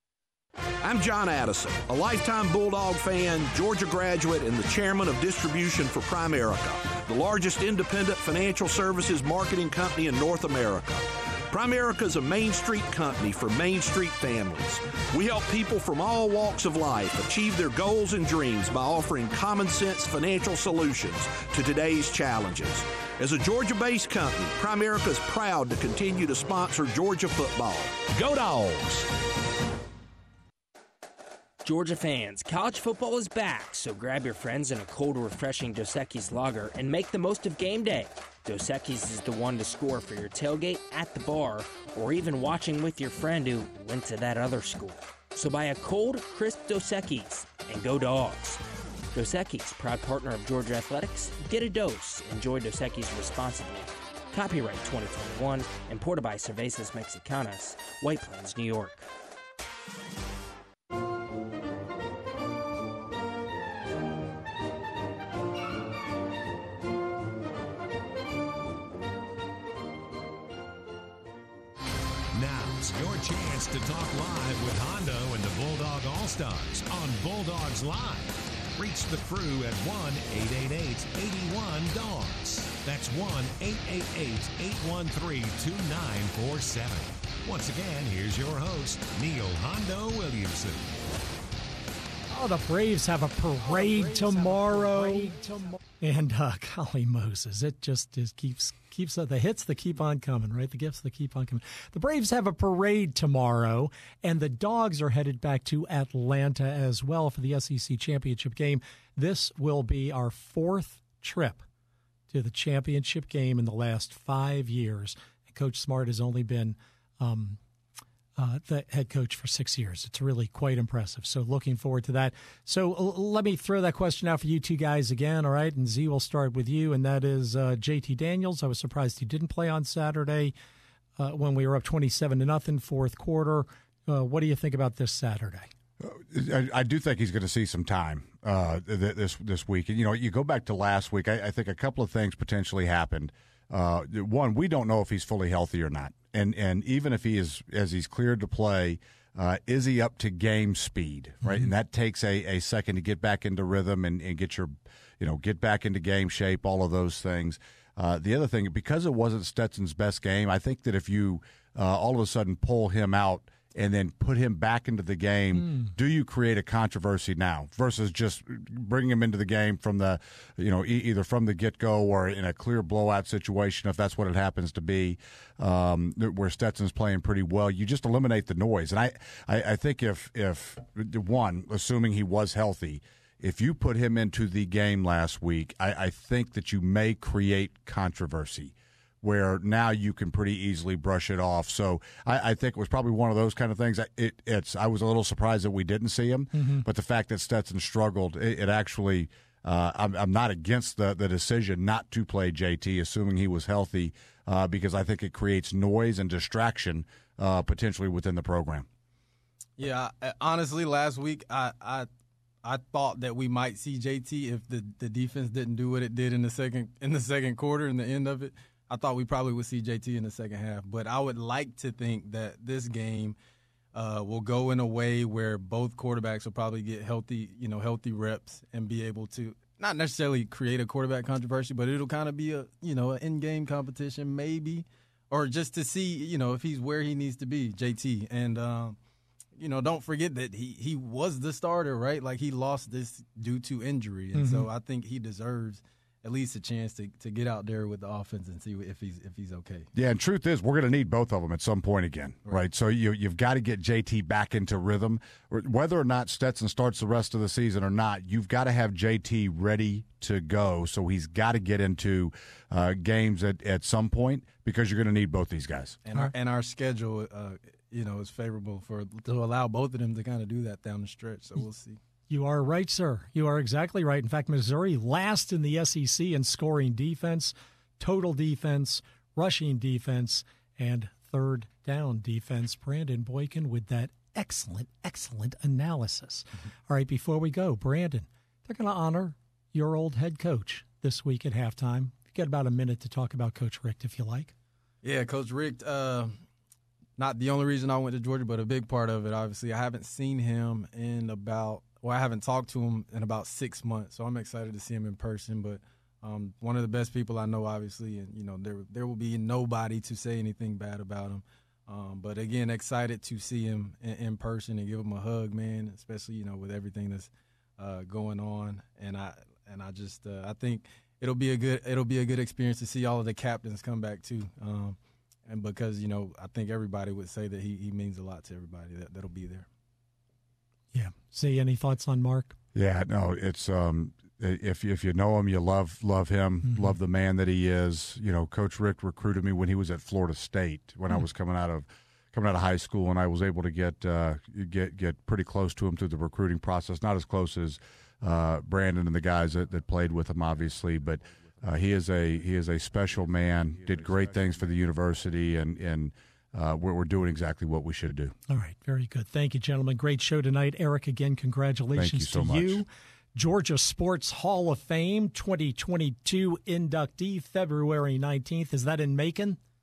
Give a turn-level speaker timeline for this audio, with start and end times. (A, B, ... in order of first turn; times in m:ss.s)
0:00.8-0:29.1 A
0:31.6-0:48.6 B
0:49.1-0:59.1 B
1:12.3-1:31.0 C
1:32.3-1:51.6 D
1:52.3-1:57.6 D
1:58.4-2:10.5 D
2:11.2-2:15.7 D
2:16.0-3:28.9 E
2:31.4-2:31.7 D
2:45.6-2:45.9 D
3:16.5-3:16.8 D
3:29.8-3:32.1 F
3:32.6-3:43.4 F
3:43.9-3:59.0 F
3:59.6-4:09.9 F
4:04.3-4:04.7 D
4:09.9-4:26.0 E
4:26.0-4:32.0 F
4:32.3-4:54.5 D
4:55.0-4:56.4 F
4:57.2-5:29.6 F
5:30.9-5:32.6 D
5:32.7-5:58.3 E
5:36.6-5:36.9 D
5:58.5-6:09.6 D
6:01.9-6:02.8 E